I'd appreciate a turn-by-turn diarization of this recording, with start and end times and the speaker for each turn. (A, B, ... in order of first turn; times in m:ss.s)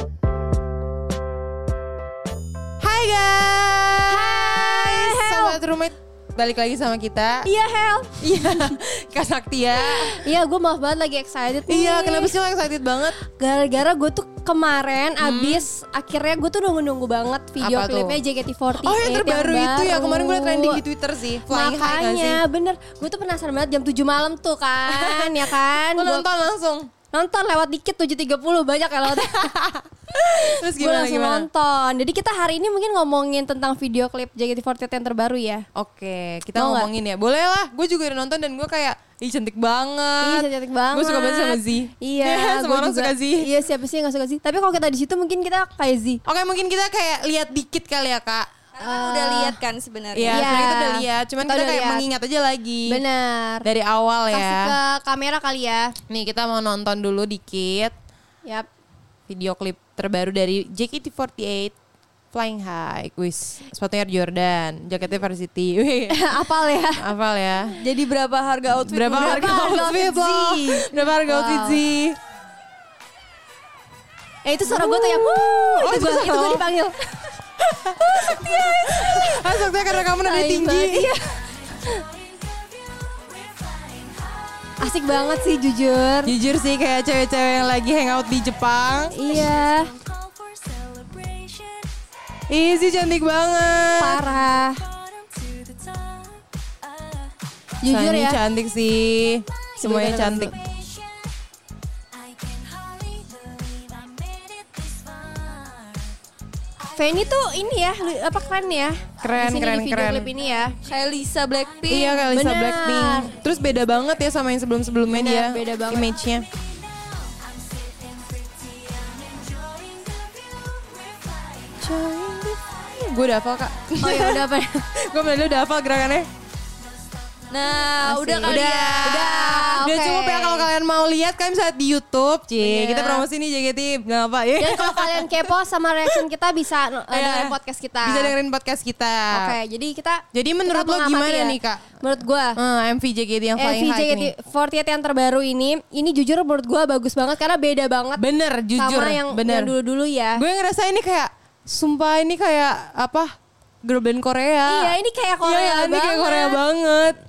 0:02.8-0:07.5 A
0:04.1-0:05.6 B
0:07.4-0:08.7 B
0:08.2-0:10.1 A
0:09.8-0:12.3 B
0:11.7-0:13.2 A
0:13.2-0:20.8 B
0:15.2-0:15.6 A
0:17.6-0:18.2 A
0:18.7-0:22.4 A
0:21.5-0:26.2 B
0:24.9-0:26.9 A
0:27.1-0:29.5 B
0:29.1-0:31.5 A
0:30.3-0:35.6 B
0:35.7-0:43.4 A
0:36.6-0:36.9 B
0:40.2-0:46.2 B
0:46.2-0:48.5 A
0:48.7-0:50.8 C
0:48.8-0:49.6 B
0:50.1-0:53.0 A
0:50.3-0:52.0 B
0:52.9-0:53.6 B
0:53.6-0:54.8 A
0:54.3-0:55.9 B
0:56.1-0:57.9 A
0:59.3-1:01.7 A
1:02.3-1:06.2 A
1:06.1-1:07.0 B
1:06.9-1:07.8 A
1:07.8-1:09.8 C
1:08.8-1:12.2 A
1:09.1-1:11.8 B
1:14.4-1:16.9 B
1:14.7-1:16.6 A
1:17.8-1:21.1 A
1:18.1-1:21.3 B
1:24.8-1:26.3 B
1:26.2-1:29.2 A
1:29.1-1:29.9 B
1:30.6-1:31.7 C
1:32.5-1:34.2 A
1:34.0-1:34.8 B
1:35.9-1:36.2 C
1:37.8-1:38.4 B
1:37.8-1:40.6 A
1:39.8-1:40.6 B
1:42.6-1:45.8 C
1:46.9-1:50.8 B
1:49.2-1:50.3 A
1:50.8-1:52.3 C
1:51.9-1:56.5 A
1:52.2-1:53.4 B
1:55.1-1:56.2 B
1:58.4-2:01.5 C
2:01.8-2:06.3 A
2:04.0-2:04.8 B
2:07.5-2:09.8 C
2:08.0-2:10.7 B
2:08.4-2:15.4 A
2:12.6-2:13.2 B
2:14.6-2:18.3 B
2:17.1-2:19.5 A
2:19.3-2:22.6 B
2:20.3-2:22.0 A
2:22.6-2:24.3 A
2:23.6-2:28.2 B
2:28.2-2:29.7 A
2:28.8-2:30.4 B
2:30.3-2:33.3 A
2:33.8-2:37.2 A
2:34.7-2:36.6 B